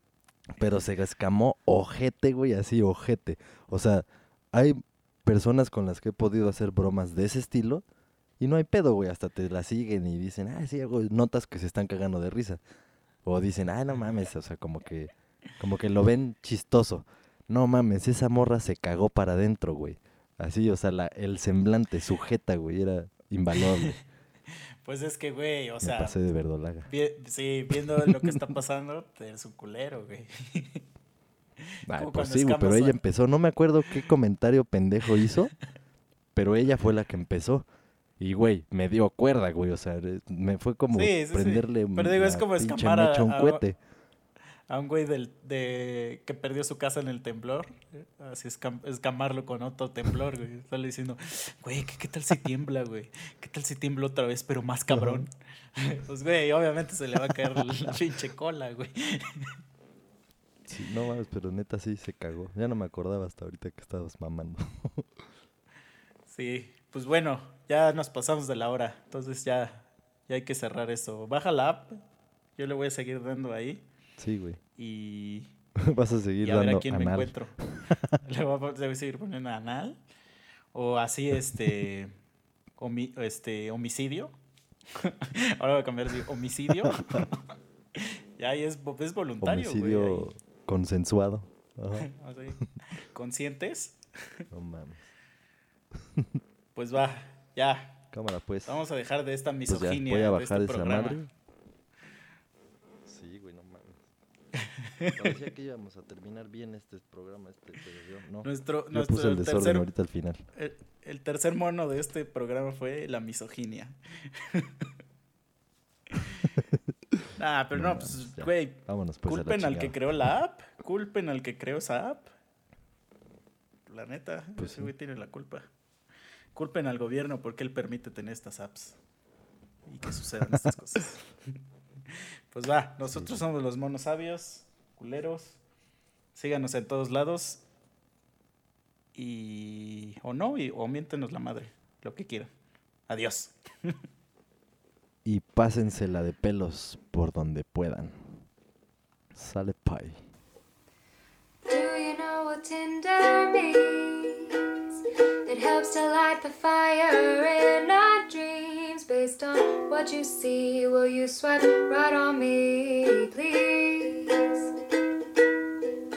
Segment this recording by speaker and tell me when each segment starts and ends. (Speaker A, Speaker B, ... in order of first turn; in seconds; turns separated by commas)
Speaker A: 0.5-7.8, Speaker A: 8.4-12.6, Speaker A: 13.2-24.0, Speaker B: 23.6-23.9, Speaker B: 24.8-26.1, Speaker A: 25.8-26.9, Speaker B: 26.9-30.8, Speaker A: 27.9-28.3, Speaker A: 31.9-35.5, Speaker B: 31.9-33.0, Speaker A: 36.3-37.6, Speaker A: 38.2-43.8, Speaker B: 40.9-43.6, Speaker B: 44.7-59.5, Speaker A: 54.9-55.2, Speaker A: 60.7-65.1, Speaker B: 66.3-72.0, Speaker B: 72.5-73.8, Speaker A: 74.2-74.6, Speaker B: 74.8-75.5, Speaker A: 75.8-78.2, Speaker B: 76.4-77.5, Speaker B: 78.2-80.0, Speaker B: 80.7-82.1, Speaker B: 82.8-84.3, Speaker B: 84.9-87.4, Speaker A: 86.9-87.2, Speaker B: 87.9-90.3, Speaker A: 89.4-92.1, Speaker B: 91.9-94.0, Speaker A: 94.5-95.1, Speaker B: 96.7-98.0, Speaker A: 98.1-98.8, Speaker B: 98.7-101.2, Speaker A: 99.7-101.3, Speaker A: 103.0-104.0, Speaker A: 105.1-110.4, Speaker B: 108.4-109.9, Speaker B: 110.5-114.8, Speaker B: 116.1-116.5, Speaker B: 117.3-122.3, Speaker A: 117.7-120.0, Speaker B: 123.9-125.7, Speaker A: 124.6-124.9, Speaker B: 126.5-129.0, Speaker B: 129.8-131.2, Speaker B: 132.1-135.6, Speaker A: 133.1-133.3, Speaker B: 136.3-137.6, Speaker B: 139.1-142.5, Speaker B: 143.1-143.9, Speaker A: 145.2-148.4, Speaker A: 149.3-150.2, Speaker C: 151.7-154.6, Speaker C: 155.4-164.7